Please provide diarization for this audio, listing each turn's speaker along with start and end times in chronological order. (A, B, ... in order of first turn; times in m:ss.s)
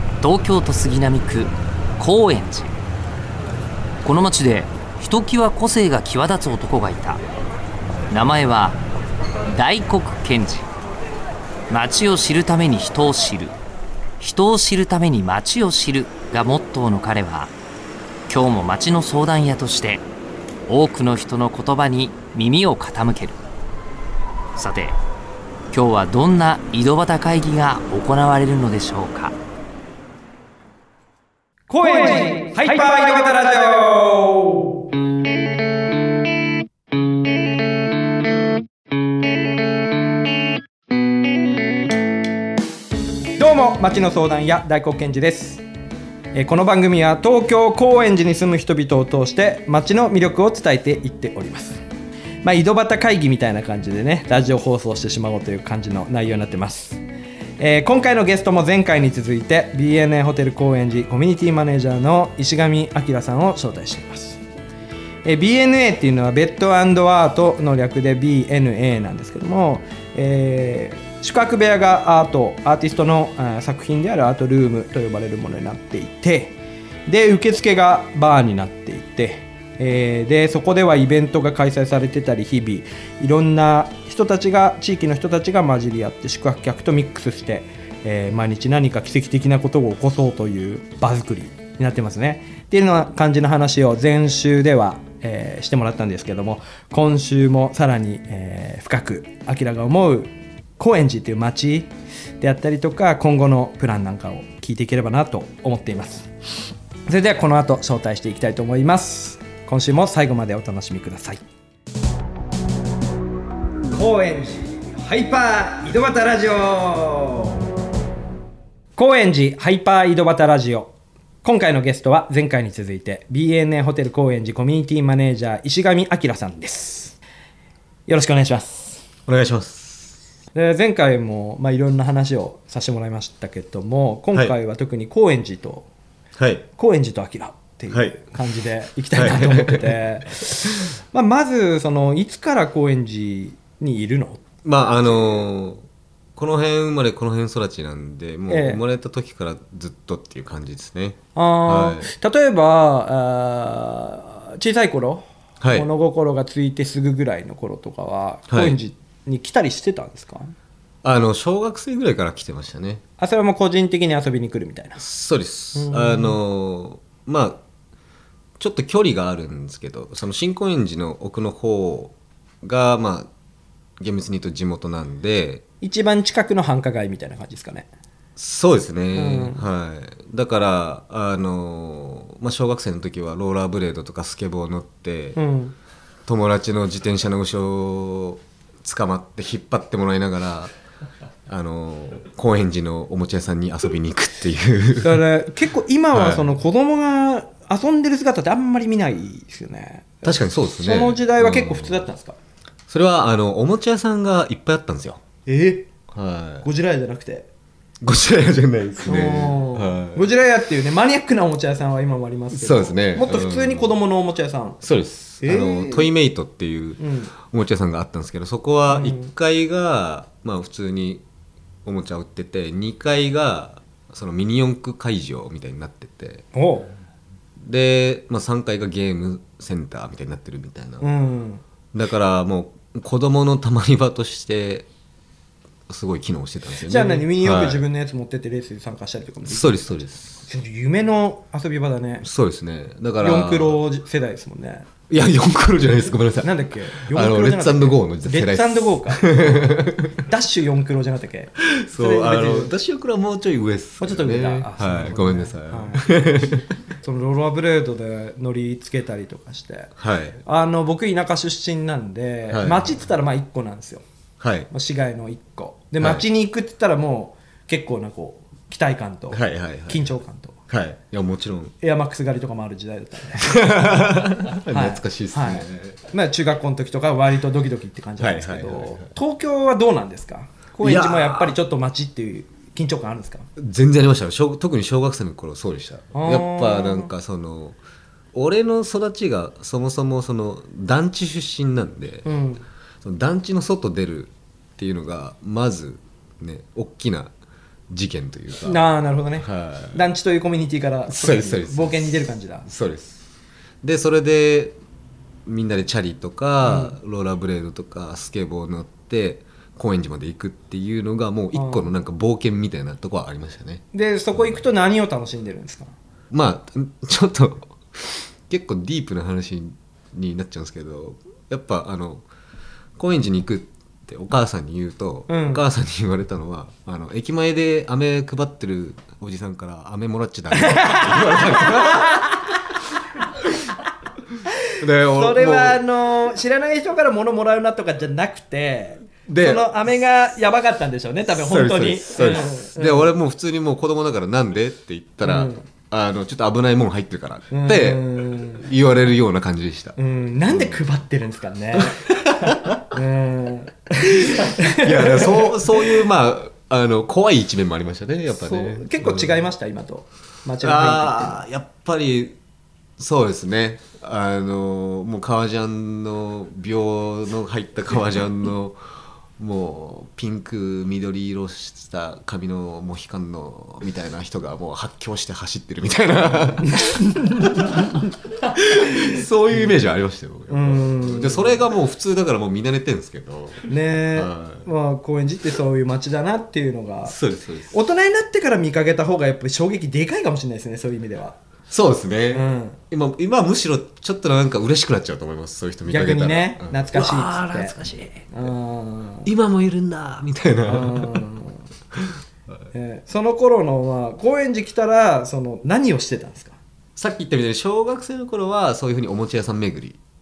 0:00.2-0:02.7 A
0:04.0-0:07.2 A
0:08.1-0:08.8 A
0:09.5-0:10.6 A
0:11.7-0:13.5 A
0:14.2-0:17.5 A
0:18.3-0:20.0 A
0:20.7-0:23.4 A
0:24.6-0:25.0 A
0:25.7-0:29.4 A
0:31.7-0:34.8 B
0:43.4-0:45.6 B
0:46.3-0:51.8 B
0:52.4-0:57.0 B
0:57.6-1:04.4 B
1:05.2-1:16.6 B
1:17.1-1:46.3 B
1:47.1-1:51.4 B
1:53.9-1:57.6 B
1:59.0-2:00.9 B
2:01.4-2:07.2 B
2:08.1-2:09.0 B
2:09.3-2:10.2 C
2:10.6-2:15.9 B
2:16.4-2:16.7 C
2:16.8-2:24.4 B
2:17.9-2:18.3 C
2:19.1-2:20.0 C
2:24.6-2:32.1 C
2:28.5-2:28.8 B
2:31.4-2:40.6 B
2:35.6-2:35.9 C
2:38.5-2:38.8 C
2:41.0-2:43.0 C
2:43.2-2:45.0 B
2:45.0-2:47.6 C
2:45.7-2:46.4 B
2:48.6-2:53.3 C
2:54.0-2:55.6 C
2:55.8-2:57.9 B
2:58.4-3:05.4 C
2:59.1-2:59.6 B
3:05.4-3:05.8 B
3:06.3-3:10.7 C
3:11.5-3:15.3 C
3:15.0-3:22.4 B
3:16.1-3:16.6 C
3:20.2-3:22.1 C
3:22.9-3:25.2 C
3:25.5-3:25.9 B
3:26.1-3:26.7 C
3:26.6-3:27.5 B
3:28.0-3:30.3 C
3:29.0-3:34.8 B
3:32.5-3:34.0 C
3:34.8-3:41.2 C
3:35.4-3:36.1 B
3:37.0-3:37.3 B
3:38.9-3:39.3 B
3:41.8-3:46.4 C
3:46.5-3:46.9 B
3:47.6-3:51.1 C
3:51.0-3:51.6 B
3:51.9-3:54.9 C
3:55.9-3:57.8 C
3:56.8-4:02.3 B
3:59.5-4:00.5 C
4:02.2-4:03.8 C
4:03.2-4:04.9 B
4:05.1-4:10.2 C
4:06.4-4:12.7 B
4:11.6-4:16.7 C
4:14.0-4:16.2 B
4:17.0-4:24.0 B
4:20.0-4:20.4 C
4:22.5-4:22.9 C
4:24.4-4:24.7 C
4:24.7-4:30.6 B
4:26.0-4:26.2 C
4:29.3-4:30.1 C
4:30.7-4:31.7 C
4:31.8-4:43.5 B
4:33.4-4:36.0 C
4:38.2-4:39.1 C
4:40.8-4:41.6 C
4:43.6-4:47.8 C
4:46.1-4:47.1 B
4:48.3-4:52.3 C
4:52.2-4:52.7 B
4:53.0-4:57.3 C
4:57.9-4:58.8 C
4:58.6-5:02.7 B
4:59.4-5:00.0 C
5:01.1-5:03.2 C
5:03.8-5:04.8 C
5:05.5-5:13.8 C
5:06.6-5:07.0 B
5:11.5-5:11.9 B
5:13.9-5:15.9 B
5:16.3-5:22.3 C
5:23.0-5:32.6 C
5:25.3-5:25.6 B
5:30.5-5:32.4 B
5:34.8-5:35.8 C
5:35.0-5:43.1 B
5:39.3-5:39.8 C
5:41.3-5:50.8 C
5:45.2-5:45.7 B
5:47.5-5:48.7 B
5:50.0-5:56.0 B
5:51.8-5:52.8 C
5:54.0-5:59.4 C
5:58.3-6:01.4 B
6:00.6-6:02.4 C
6:03.0-6:24.7 C
6:16.6-6:19.7 B
6:20.5-6:21.7 B
6:23.7-6:27.2 B
6:27.0-6:27.8 C
6:27.7-6:31.4 B
6:31.7-6:38.5 C
6:32.3-6:32.8 B
6:35.9-6:37.8 B
6:38.3-6:39.3 B
6:39.2-6:41.2 C
6:40.6-6:41.7 B
6:42.7-6:46.6 B
6:47.0-6:50.0 C